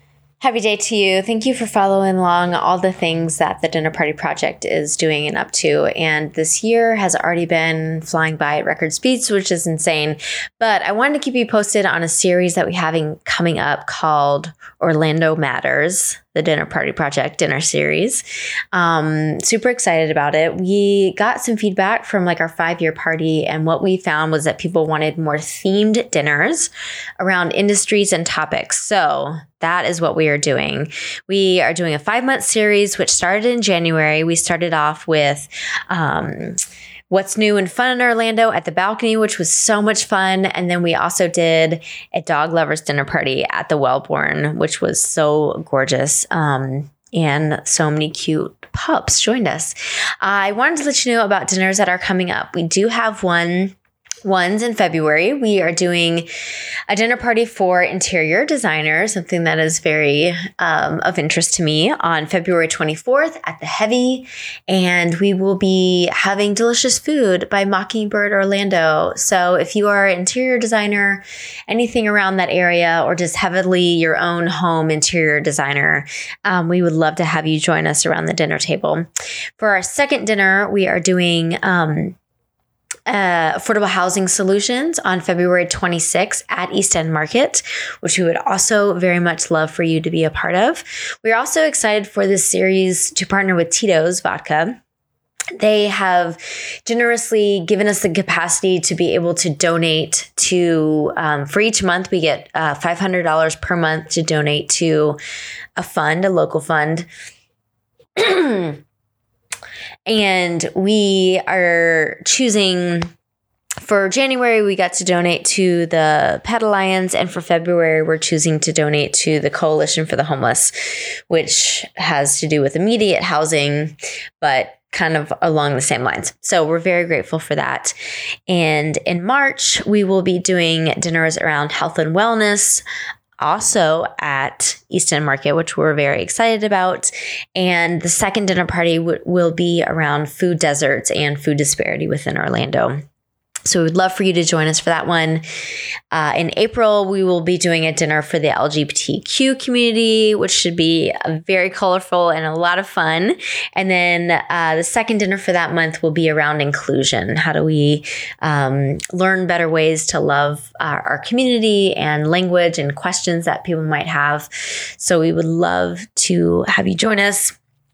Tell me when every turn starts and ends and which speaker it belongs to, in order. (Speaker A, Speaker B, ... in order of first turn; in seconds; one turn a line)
Speaker A: 0.4-56.3
Speaker A: 56.9-82.2
Speaker A: 83.1-94.8
Speaker A: 95.6-105.2
Speaker A: 105.8-107.1
Speaker A: 108.2-108.8
Speaker A: 110.1-113.1
Speaker A: 113.8-128.0
Speaker A: 128.5-132.8
Speaker A: 133.4-143.0
Speaker A: 143.7-145.4
Speaker A: 146.1-167.6